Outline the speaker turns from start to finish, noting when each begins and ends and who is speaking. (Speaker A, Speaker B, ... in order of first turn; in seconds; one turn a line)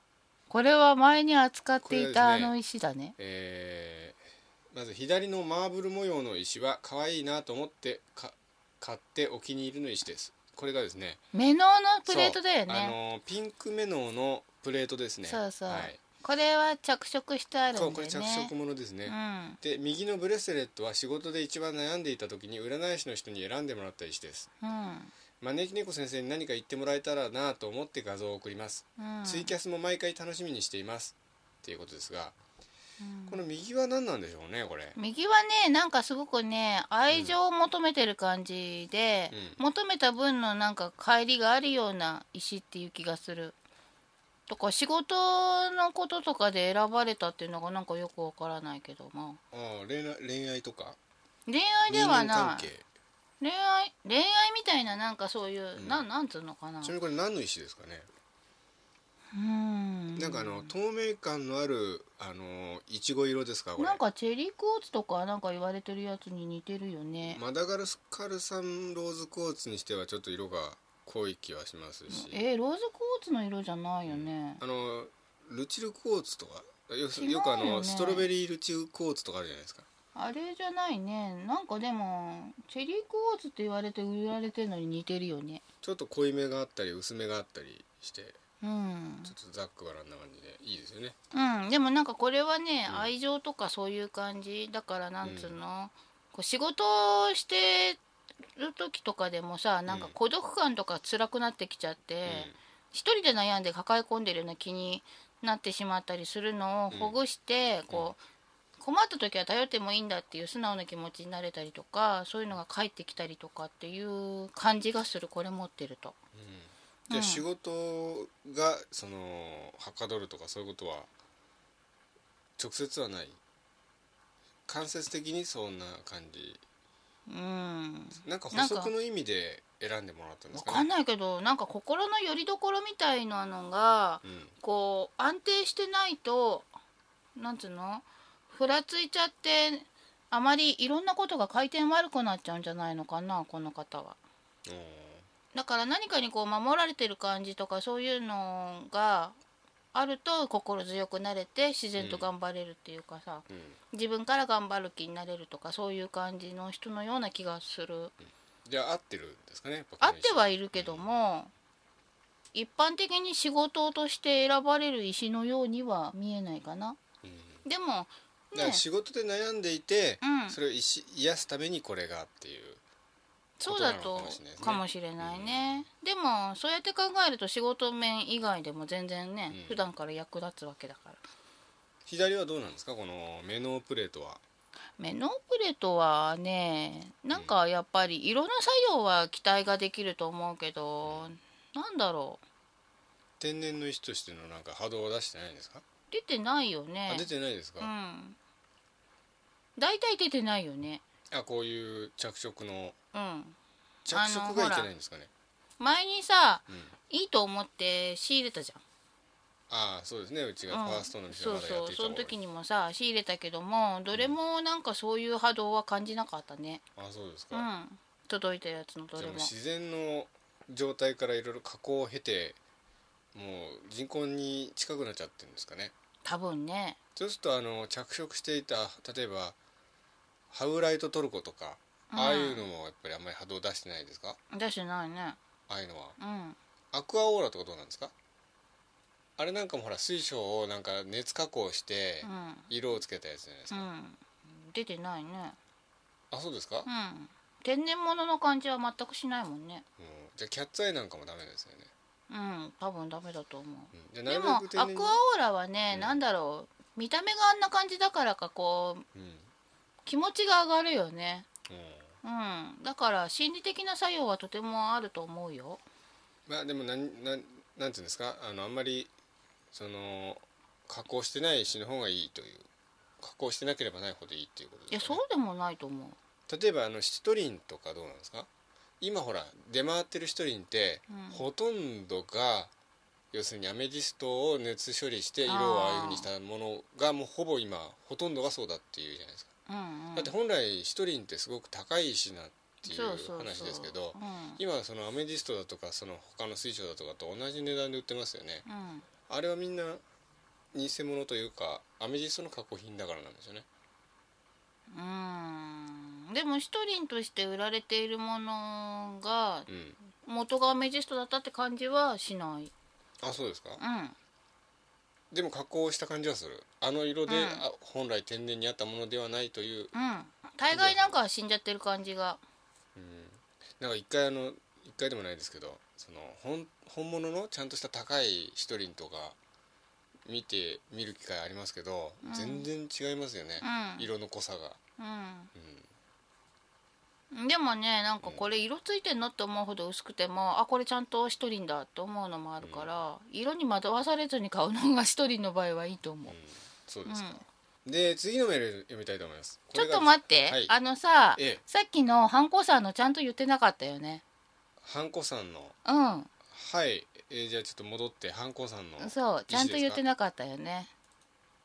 Speaker A: 0.5-3.1
Speaker B: 1.8-2.5
Speaker B: 3.2-4.2
Speaker B: 4.7-11.2
Speaker A: 11.3-12.9
Speaker B: 12.1-16.0
Speaker A: 15.3-18.5
Speaker B: 17.7-24.5
Speaker A: 19.1-19.6
Speaker A: 24.6-25.1
Speaker B: 25.4-32.4
Speaker A: 29.0-29.5
Speaker A: 33.0-33.4
Speaker B: 33.3-35.0
Speaker A: 35.0-43.6
Speaker B: 37.1-37.4
Speaker B: 39.3-39.6
Speaker A: 44.5-49.4
Speaker B: 49.5-51.0
Speaker A: 51.5-52.7
Speaker B: 51.9-52.9
Speaker A: 53.4-57.0
Speaker B: 55.8-56.1
Speaker B: 56.8-58.1
Speaker A: 59.3-60.7
Speaker B: 60.1-64.0
Speaker A: 63.8-67.4
Speaker B: 67.3-72.4
Speaker A: 72.1-74.6
Speaker B: 74.1-79.9
Speaker A: 77.2-78.3
Speaker A: 80.2-85.6
Speaker B: 85.8-88.4
Speaker A: 88.6-89.3
Speaker B: 89.2-91.2
Speaker A: 91.3-98.0
Speaker B: 95.2-95.6
Speaker A: 98.6-108.2
Speaker B: 99.9-100.2
Speaker B: 102.3-102.6
Speaker B: 106.9-107.2
Speaker B: 107.9-108.1
Speaker A: 108.8-116.2
Speaker B: 116.3-121.1
Speaker A: 117.1-117.5
Speaker B: 122.6-123.4
Speaker B: 124.7-126.6
Speaker A: 127.3-128.9
Speaker B: 128.2-130.9
Speaker A: 130.5-136.7
Speaker B: 134.2-134.5
Speaker A: 137.4-144.2
Speaker B: 144.7-145.3
Speaker A: 145.5-149.4
Speaker A: 149.9-158.1
Speaker B: 152.0-152.3
Speaker B: 153.5-153.8
Speaker B: 158.7-161.1
Speaker A: 160.0-161.5
Speaker A: 162.5-167.0
Speaker B: 167.2-167.6
Speaker A: 167.7-168.8
Speaker B: 168.5-172.8
Speaker A: 170.2-170.6
Speaker A: 173.6-181.2
Speaker B: 173.6-175.8
Speaker B: 179.5-179.9
Speaker B: 182.1-184.4
Speaker A: 185.0-192.4
Speaker B: 187.3-187.6
Speaker B: 191.1-191.3
Speaker B: 193.4-195.8
Speaker A: 196.1-197.3
Speaker B: 197.1-197.9
Speaker A: 197.8-198.4
Speaker A: 199.8-201.0
Speaker B: 201.3-203.0
Speaker A: 203.1-203.6
Speaker B: 204.1-205.3
Speaker A: 204.1-204.9
Speaker A: 205.8-208.8
Speaker B: 209.7-212.3
Speaker A: 210.7-216.8
Speaker B: 217.0-217.7
Speaker A: 217.5-219.5
Speaker B: 219.2-222.6
Speaker B: 223.3-225.9
Speaker A: 226.2-227.0
Speaker B: 227.2-229.6
Speaker B: 230.5-234.4
Speaker A: 232.1-232.7
Speaker A: 234.5-235.4
Speaker B: 235.7-236.2
Speaker A: 236.2-236.6
Speaker B: 236.9-238.1
Speaker B: 239.4-243.9
Speaker A: 242.2-242.7
Speaker A: 243.7-245.6
Speaker B: 246.3-246.9
Speaker A: 246.8-249.8
Speaker B: 250.0-251.9
Speaker A: 252.3-259.1
Speaker B: 253.9-255.2
Speaker B: 255.9-256.2
Speaker B: 259.1-259.5
Speaker A: 260.1-261.5
Speaker B: 261.7-262.1
Speaker A: 262.2-265.8
Speaker B: 266.5-269.1
Speaker B: 269.7-272.7
Speaker B: 273.2-275.2
Speaker A: 274.9-276.2
Speaker B: 276.5-278.5
Speaker B: 279.0-282.7
Speaker A: 281.1-281.4
Speaker B: 283.3-289.5
Speaker A: 285.5-286.3
Speaker A: 289.7-290.3
Speaker B: 290.1-298.6
Speaker A: 292.9-294.6
Speaker A: 298.7-299.1
Speaker B: 299.3-300.0
Speaker B: 300.7-303.7
Speaker A: 304.9-312.7
Speaker B: 309.7-310.0
Speaker B: 313.2-313.8
Speaker A: 313.8-314.2
Speaker B: 315.3-319.9
Speaker A: 317.3-317.6
Speaker A: 319.9-322.4
Speaker B: 320.7-321.1
Speaker B: 322.9-329.4
Speaker B: 330.3-334.8
Speaker A: 332.2-332.7
Speaker A: 333.6-334.1
Speaker A: 335.0-335.5
Speaker B: 335.5-335.9
Speaker A: 337.3-346.4
Speaker B: 338.2-338.5
Speaker B: 342.6-342.9
Speaker B: 346.3-350.7
Speaker A: 347.1-347.4
Speaker A: 349.7-354.2
Speaker B: 351.4-351.6
Speaker B: 354.8-355.8
Speaker A: 355.9-356.3
Speaker B: 356.5-360.0
Speaker A: 359.0-360.9